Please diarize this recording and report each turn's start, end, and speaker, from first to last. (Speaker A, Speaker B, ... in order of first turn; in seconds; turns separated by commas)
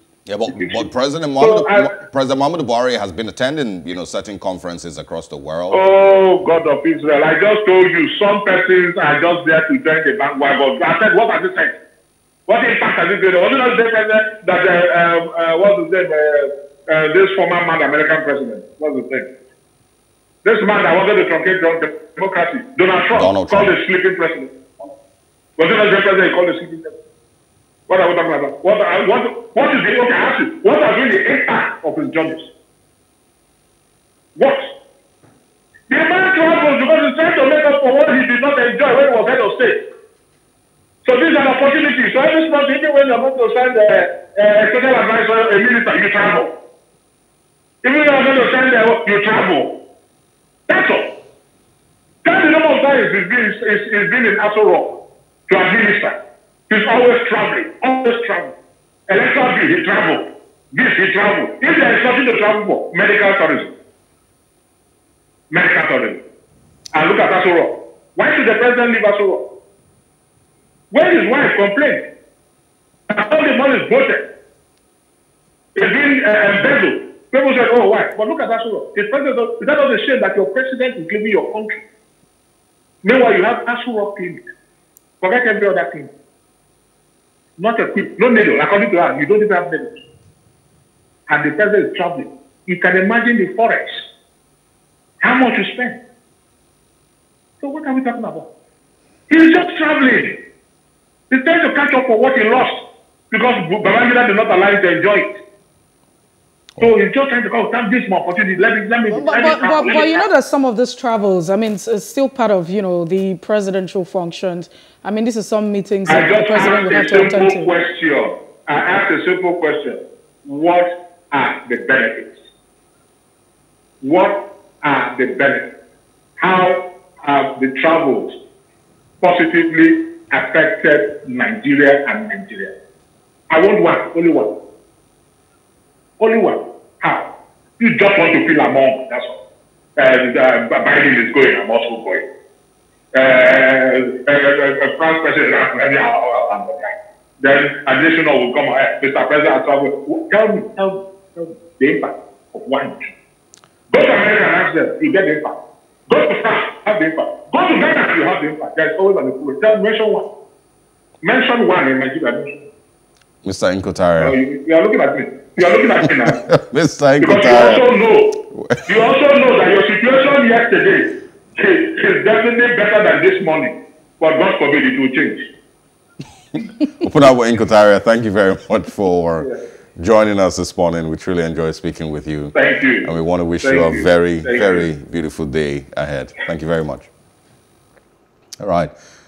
Speaker A: 0.3-5.8, Speaker B: 0.5-0.8, Speaker B: 1.4-1.9, Speaker B: 5.7-11.8, Speaker B: 12.5-19.3, Speaker B: 20.4-24.9, Speaker A: 23.1-23.8, Speaker B: 25.6-26.9, Speaker B: 27.9-32.5, Speaker B: 34.4-34.7, Speaker B: 35.9-39.8, Speaker B: 41.0-46.5, Speaker B: 47.8-49.8, Speaker B: 50.7-51.1, Speaker B: 52.2-56.2, Speaker B: 56.7-58.5, Speaker B: 59.1-63.7, Speaker B: 65.5-66.2, Speaker B: 66.9-69.5, Speaker B: 70.9-72.0, Speaker B: 73.1-74.3, Speaker B: 75.8-81.8, Speaker B: 83.0-84.4, Speaker B: 85.2-86.1, Speaker B: 87.6-90.0, Speaker B: 91.3-94.1, Speaker B: 95.2-96.0, Speaker B: 97.6-98.5, Speaker B: 99.3-100.4, Speaker B: 101.3-105.4, Speaker B: 106.8-110.3, Speaker C: 109.1-117.7, Speaker B: 116.1-122.4, Speaker B: 124.0-125.7, Speaker B: 126.4-128.4, Speaker B: 129.2-132.8, Speaker B: 133.5-134.6, Speaker B: 136.2-139.4, Speaker B: 140.0-142.3, Speaker B: 143.1-153.1, Speaker B: 153.9-160.3, Speaker B: 161.2-162.7, Speaker A: 163.4-164.4, Speaker B: 164.2-166.4, Speaker A: 166.0-167.9, Speaker B: 167.2-175.5, Speaker A: 168.5-168.9, Speaker A: 177.0-187.1, Speaker B: 182.5-184.9, Speaker A: 188.6-188.9